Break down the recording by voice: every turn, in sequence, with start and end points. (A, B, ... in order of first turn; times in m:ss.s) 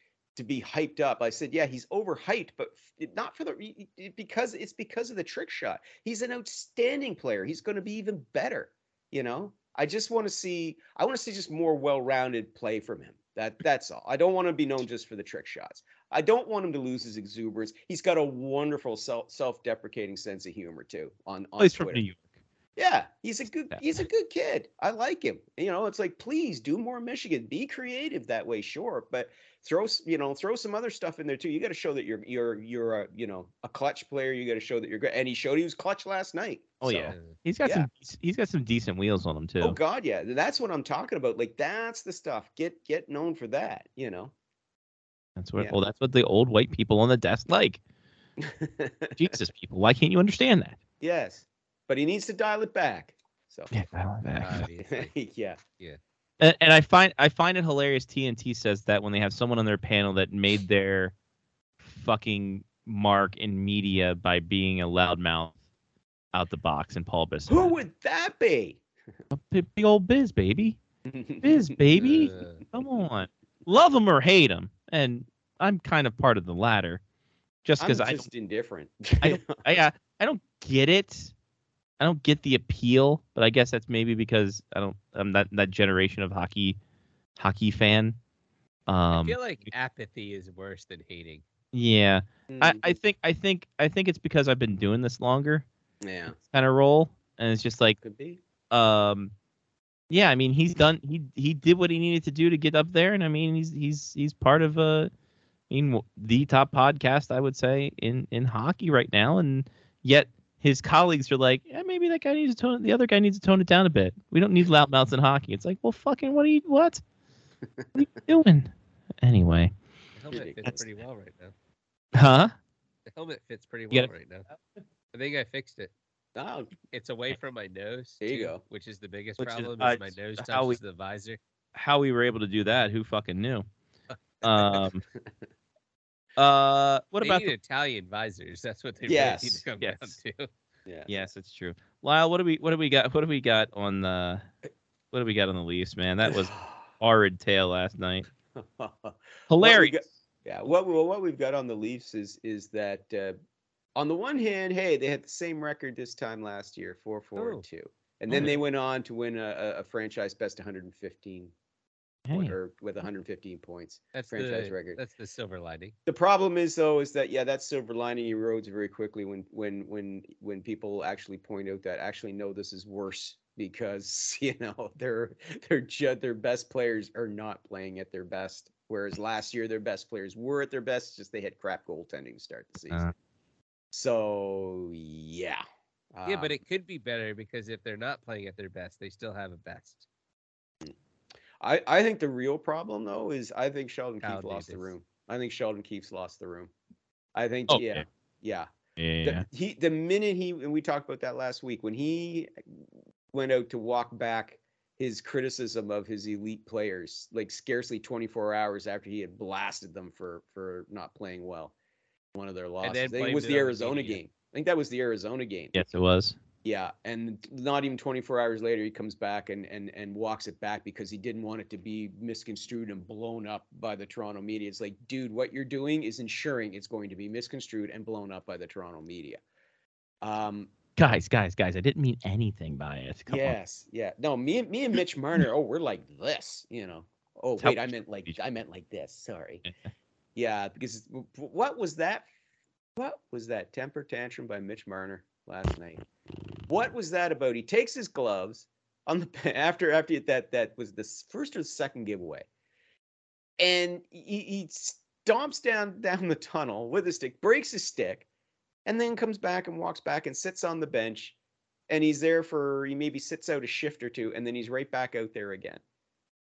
0:00.4-0:22.0 A
0:21.6-0:22.3 B
0:22.8-0:37.9 A
0:36.8-0:39.8 B
0:37.1-0:37.4 C
0:39.6-0:44.3 A
0:45.4-0:47.8 B
0:48.4-0:49.4 A
0:49.2-0:50.8 B
0:51.0-0:53.7 A
0:53.7-0:54.7 B
0:54.4-0:55.1 C
0:54.8-0:55.6 A
0:56.4-1:01.1 B
1:01.8-1:05.6 B
1:06.3-1:07.8 B
1:07.5-1:08.8 A
1:09.3-1:10.8 B
1:11.0-1:12.2 A
1:11.4-1:17.0 B
1:12.0-1:12.6 C
1:17.6-1:18.3 B
1:17.8-1:19.6 A
1:19.2-1:21.3 B
1:22.0-1:26.8 B
1:27.4-1:28.2 B
1:28.9-1:29.7 B
1:29.1-1:31.4 C
1:31.7-1:35.6 B
1:32.5-1:33.0 A
1:36.0-1:36.4 A
1:36.3-1:38.0 B
1:38.0-1:38.4 A
1:38.7-1:39.3 B
1:40.1-1:45.1 B
1:45.7-1:57.0 B
1:57.9-1:59.7 B
2:00.2-2:01.5 C
2:00.3-2:00.8 A
2:02.2-2:02.5 B
2:03.1-2:04.5 C
2:05.1-2:05.9 C
2:06.4-2:06.8 A
2:06.9-2:11.4 C
2:08.2-2:08.6 A
2:09.4-2:10.8 B
2:11.8-2:13.7 B
2:14.4-2:15.0 B
2:14.4-2:15.3 A
2:16.4-2:17.5 B
2:17.2-2:20.5 C
2:19.1-2:19.6 A
2:19.8-2:20.2 B
2:21.1-2:24.4 B
2:25.1-2:28.3 B
2:26.3-2:26.8 A
2:28.5-2:33.4 A
2:29.5-2:30.0 B
2:34.0-2:41.5 A
2:37.4-2:37.6 C
2:42.3-2:42.6 B
2:42.3-2:45.0 A
2:44.2-2:45.9 C
2:46.1-3:03.0 A
3:03.9-3:06.6 A
3:06.3-3:10.0 C
3:11.6-3:16.7 A
3:14.2-3:14.9 C
3:17.4-3:18.7 A
3:17.7-3:18.0 B
3:19.0-3:19.5 B
3:19.2-3:22.5 A
3:23.3-3:31.7 A
3:32.3-3:35.8 A
3:32.8-3:34.2 C
3:35.7-3:36.4 B
3:36.6-3:49.4 A
3:50.2-3:50.7 A
3:51.0-3:53.6 B
3:53.3-3:59.6 A
3:57.6-3:58.4 B
3:59.6-3:59.9 B
4:00.4-4:02.3 A
4:03.0-4:06.0 A
4:06.7-4:12.5 A
4:13.6-4:18.3 A
4:18.8-4:21.4 A
4:21.9-4:25.8 A